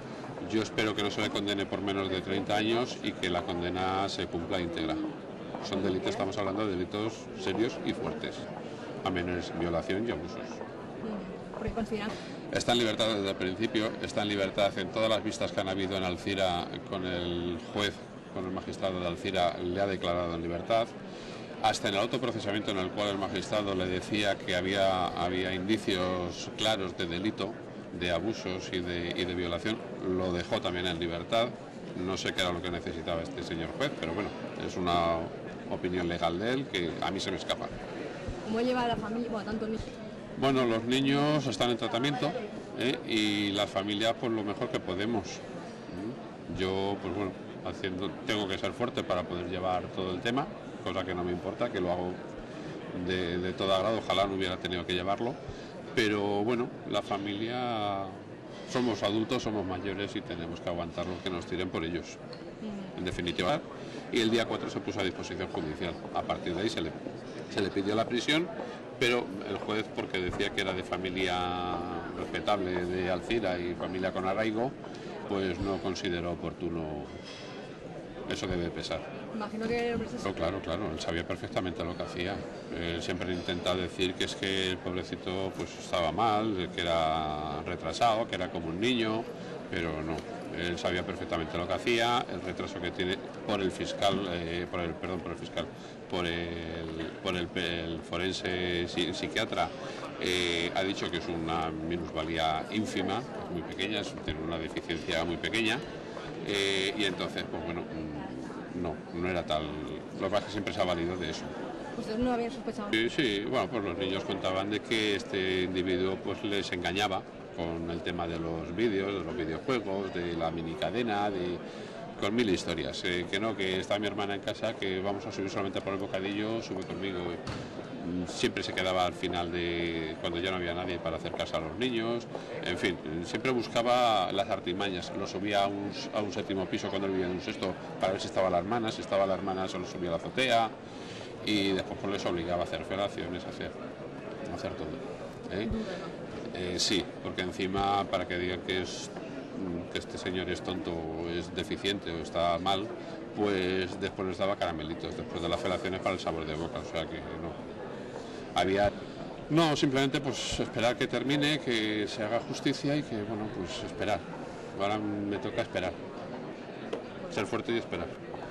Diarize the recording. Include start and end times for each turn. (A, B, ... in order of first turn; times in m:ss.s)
0:00.4-0:05.1 A
0:05.6-0:08.5 A
0:09.0-0:10.6 A
0:11.0-0:12.1 B
0:12.5-0:20.9 A
0:21.6-0:37.7 A
0:38.4-0:39.9 B
0:40.4-0:52.2 A
0:52.9-0:55.4 A
0:56.0-1:02.2 A
1:02.6-1:02.9 B
1:02.9-1:06.9 A
1:07.5-1:14.7 A
1:15.2-1:17.1 A
1:18.3-1:19.1 A
1:19.3-1:20.4 B
1:20.2-1:45.8 A
1:46.4-1:51.5 A
1:52.0-1:53.0 B
1:52.9-2:01.6 A
2:02.2-2:07.4 A
2:07.9-2:20.7 A
2:21.4-2:23.7 A
2:24.5-2:25.8 A
2:25.7-2:26.1 B
2:26.5-2:37.6 A
2:38.5-2:38.9 A
2:39.5-2:44.2 A
2:44.8-2:46.0 A
2:47.3-2:48.1 A